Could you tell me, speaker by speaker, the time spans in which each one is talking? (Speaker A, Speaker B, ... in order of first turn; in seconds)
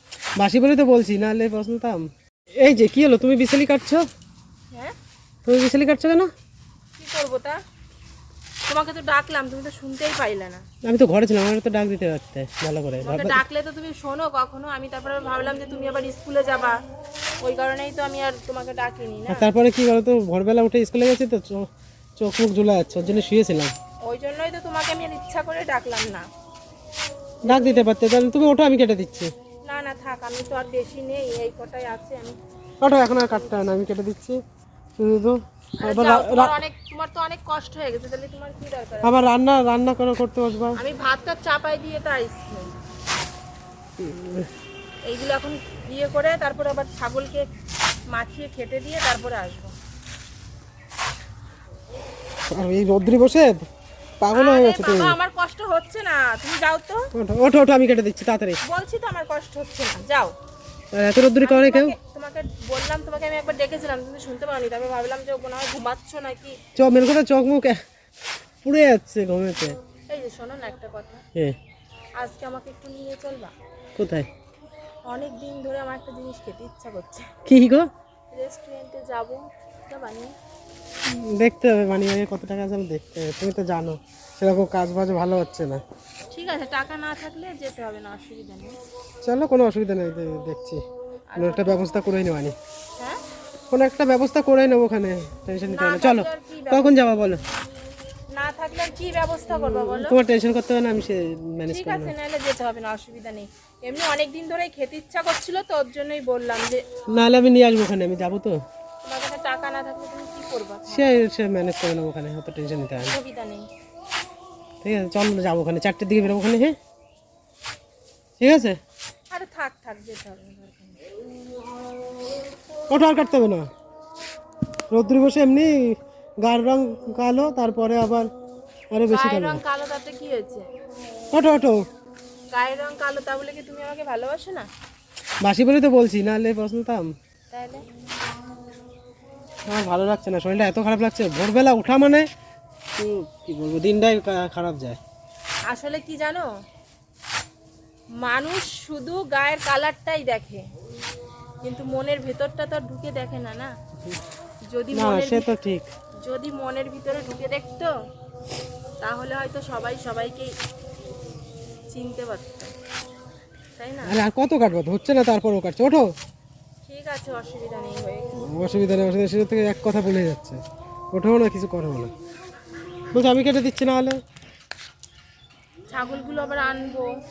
Speaker A: 0.4-2.1, 2.6-4.1, 5.5-6.3, 10.8-13.4, 19.3-23.7, 27.5-29.3, 32.8-34.4, 35.0-36.6, 39.0-40.8, 44.0-44.5, 52.5-53.6, 54.2-55.2, 57.1-58.6, 60.9-62.0, 66.8-67.8, 68.6-69.8, 74.0-74.3, 77.5-77.9, 81.0-85.8, 89.2-90.8, 91.4-92.5, 93.7-97.4, 99.5-102.1, 107.1-108.6, 110.9-113.2, 114.8-116.8, 118.4-118.8, 122.9-123.7, 124.9-128.3, 128.9-129.6, 131.3-131.8, 135.4-137.1, 139.7-142.3, 142.9-145.0, 154.9-155.9, 164.1-166.1, 168.4-170.6, 171.1-172.1, 173.1-174.2
Speaker B: 7.0-7.6, 8.7-10.6, 13.0-16.8, 17.4-19.5, 24.0-26.3, 27.5-27.9, 29.6-32.4, 35.8-39.2, 40.8-42.8, 45.1-47.5, 48.1-49.7, 54.3-57.1, 58.6-60.4, 61.4-66.6, 70.1-71.2, 72.2-73.5, 75.1-77.3, 78.3-80.3, 86.3-88.8, 91.3-91.8, 95.7-96.9, 98.3-100.2, 101.7-106.8, 109.0-111.1, 113.1-113.7, 119.3-121.0, 129.1-130.7, 132.5-134.7, 137.5-137.8, 145.7-146.5, 148.2-150.7, 151.6-153.7, 154.7-155.5, 156.2-157.9, 159.0-160.6, 161.9-162.7, 163.8-164.2, 166.8-168.5, 175.9-177.1